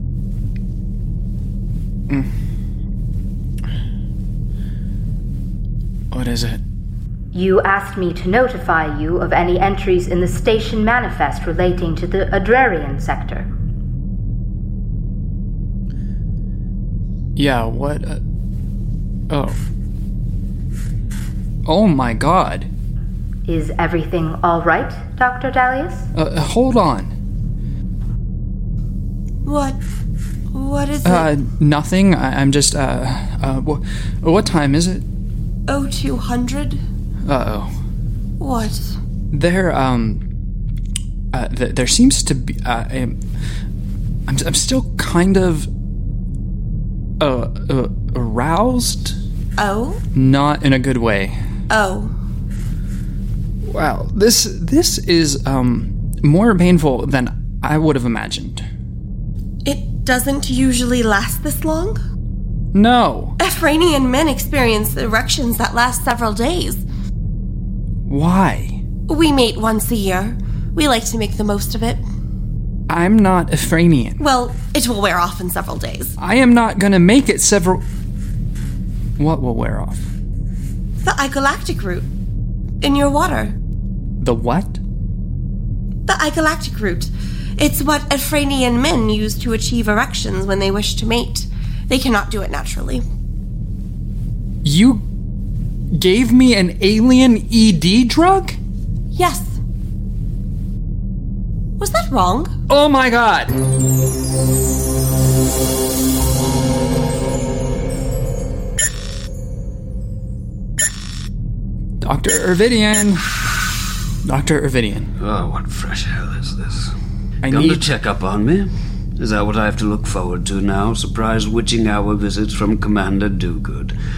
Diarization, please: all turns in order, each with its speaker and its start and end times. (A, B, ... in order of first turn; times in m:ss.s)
0:06.1-0:06.6 A
0:07.3-0:13.5 B
0:17.4-0:18.2 A
0:19.3-0:19.6 A
0:21.7-0:22.7 A
0:23.5-0:26.1 B
0:26.2-0:27.1 A
0:29.4-0:29.8 C
0:30.5-0:31.3 C
0:31.0-0:35.0 A
0:35.7-0:36.8 C
0:37.2-0:37.7 A
0:38.4-0:39.0 C
0:39.3-0:40.2 A
0:41.3-0:43.2 A
0:44.3-0:45.7 A
0:47.2-0:49.2 A
0:49.6-0:50.0 C
0:50.1-0:51.4 A
0:51.7-0:52.1 C
0:53.6-0:58.6 A
0:59.6-1:02.0 C
1:02.7-1:03.4 A
1:03.4-1:06.8 C
1:08.1-1:08.8 A
1:09.1-1:12.0 C
1:12.9-1:14.2 A
1:14.2-1:16.2 C
1:16.2-1:17.8 A
1:19.2-1:20.1 A
1:21.0-1:22.1 C
1:22.8-1:23.6 C
1:24.2-1:24.8 A
1:26.1-1:33.0 C
1:34.6-1:35.0 A
1:35.9-1:38.6 A
1:39.2-1:39.6 C
1:41.8-1:42.5 C
1:42.7-1:43.6 A
1:52.0-1:53.3 A
1:54.2-1:55.1 A
1:55.2-1:56.9 D
1:57.4-1:57.9 A
1:57.4-2:04.0 D